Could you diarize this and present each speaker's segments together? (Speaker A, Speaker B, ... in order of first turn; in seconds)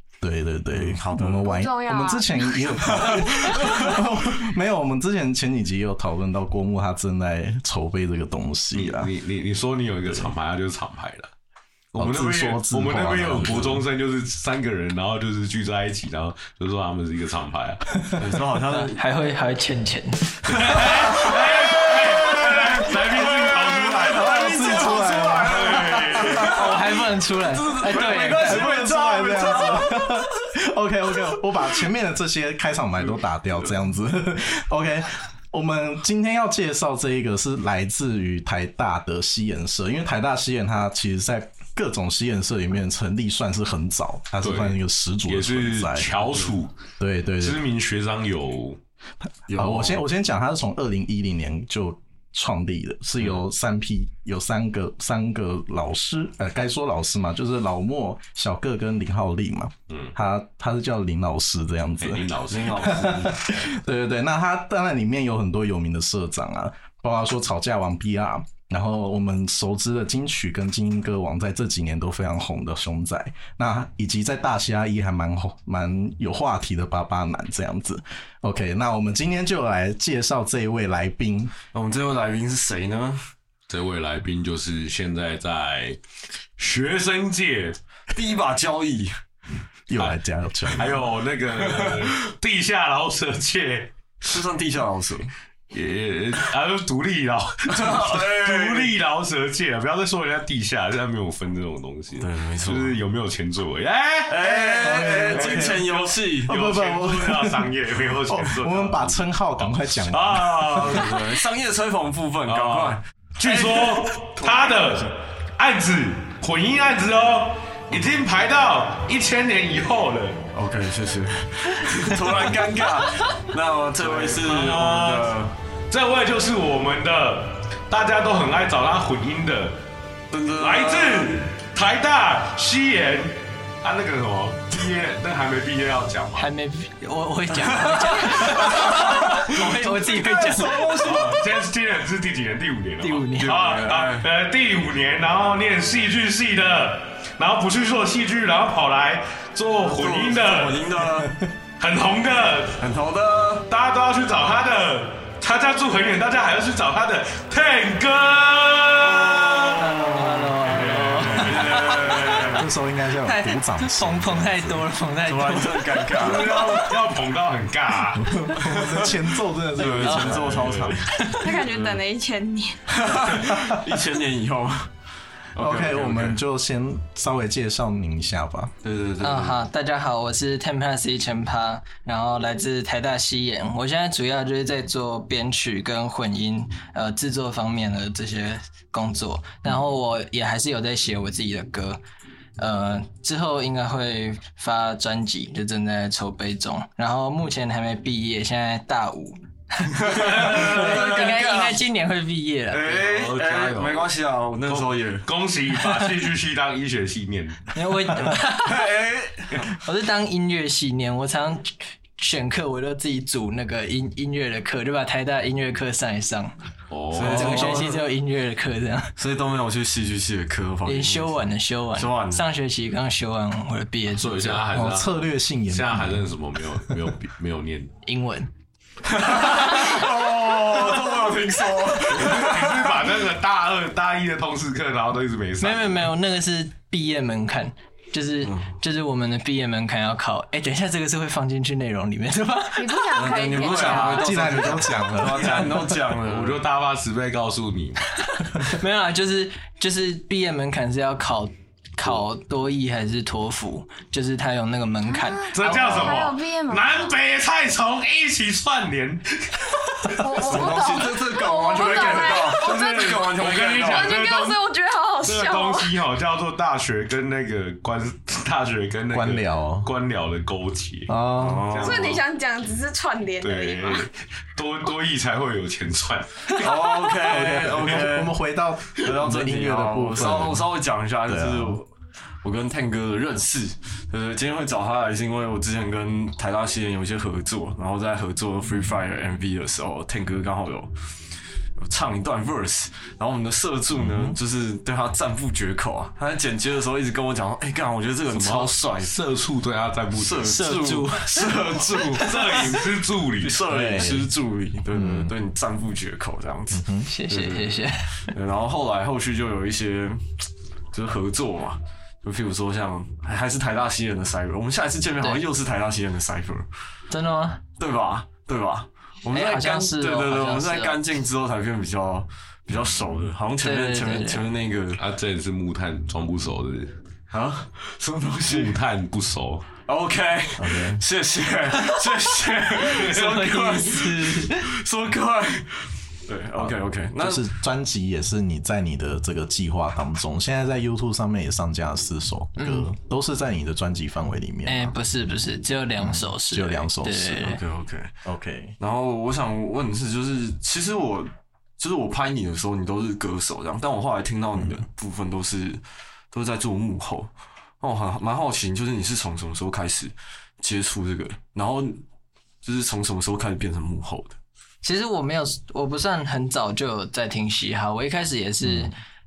Speaker A: 0.2-9.1, 12.0-13.9, 24.0-26.5, 28.1-46.1, 47.0-47.6, 49.5-81.5, 89.9-91.0, 104.5-107.7, 108.2-110.9, 162.5-164.9, 168.2-171.0, 173.3-173.8, 175.6-178.7, 224.7-227.2, 244.2-246.0, 269.1-269.9, 271.1-271.7, 277.2-280.7, 281.3-281.8, 294.0-294.4, 303.7-304.3, 304.9-305.3, 306.7-307.1, 330.6-331.0, 336.6-344.9, 346.0-347.6, 348.2-348.8, 354.6-354.8, 368.6-369.0
Speaker B: 0.7-1.5, 18.2-19.0, 21.1-26.9, 27.4-30.2, 49.5-50.0, 62.5-63.3, 81.7-83.2, 88.1-89.2, 91.6-92.1, 94.2-95.3, 97.7-99.0, 102.2-103.0, 104.3-106.6, 110.8-115.1, 120.5-125.5, 130.3-131.4, 137.7-141.5, 143.4-144.3, 149.8-151.4, 152.8-153.7, 159.2-162.7, 165.2-166.8, 168.6-169.2, 169.8-172.0, 173.0-174.9, 175.5-176.4, 178.8-179.6, 200.0-201.8, 202.7-205.3, 208.6-209.7, 217.1-218.0, 219.2-222.5, 229.0-233.0, 238.4-238.7, 243.1-246.6, 260.4-264.1, 271.4-272.2, 276.6-278.4, 279.0-281.9, 282.4-290.9, 291.8-299.2, 300.1-302.8, 303.4-310.4, 310.9-316.7, 317.8-325.0, 327.3-328.8, 329.9-337.5, 347.4-348.1, 348.8-357.3, 357.8-362.0, 362.6-364.4
Speaker C: 1.4-4.0, 171.3-173.0, 242.8-244.6, 255.1-257.1, 260.1-266.0, 271.8-274.1
Speaker D: 8.7-11.3, 11.9-17.8, 20.5-26.5, 44.4-46.8, 47.4-48.8, 62.0-63.5, 83.7-86.0, 86.6-87.8, 90.7-94.4, 95.7-111.4, 112.5-120.4, 124.0-125.3, 125.9-129.8, 130.6-136.5, 139.0-139.6, 141.0-150.9, 151.8-152.8, 153.7-159.9, 160.6-162.4, 166.2-168.6, 169.8-171.2, 200.1-201.4, 202.8-204.1, 204.7-207.7, 216.9-217.8, 224.2-227.9, 232.2-236.1, 243.6-244.2, 245.4-245.7, 246.2-248.1, 255.5-260.8, 261.9-264.6, 265.2-272.2, 273.4-276.8, 298.3-300.5, 302.1-303.6, 325.0-326.9, 328.5-329.7
Speaker E: 18.7-20.8, 26.4-28.7, 136.4-141.2, 143.0-143.9, 159.8-162.5, 163.2-166.8, 171.1-171.4, 179.2-192.0, 192.6-203.0, 207.7-208.8, 209.8-216.5, 217.3-219.1, 220.9-224.6, 228.1-228.5, 235.6-244.2, 248.5-256.2, 300.4-301.5, 307.1-308.3, 317.1-317.6, 319.3-321.0, 323.6-324.4, 333.0-334.7, 342.6-342.9, 344.7-347.6, 364.8-368.9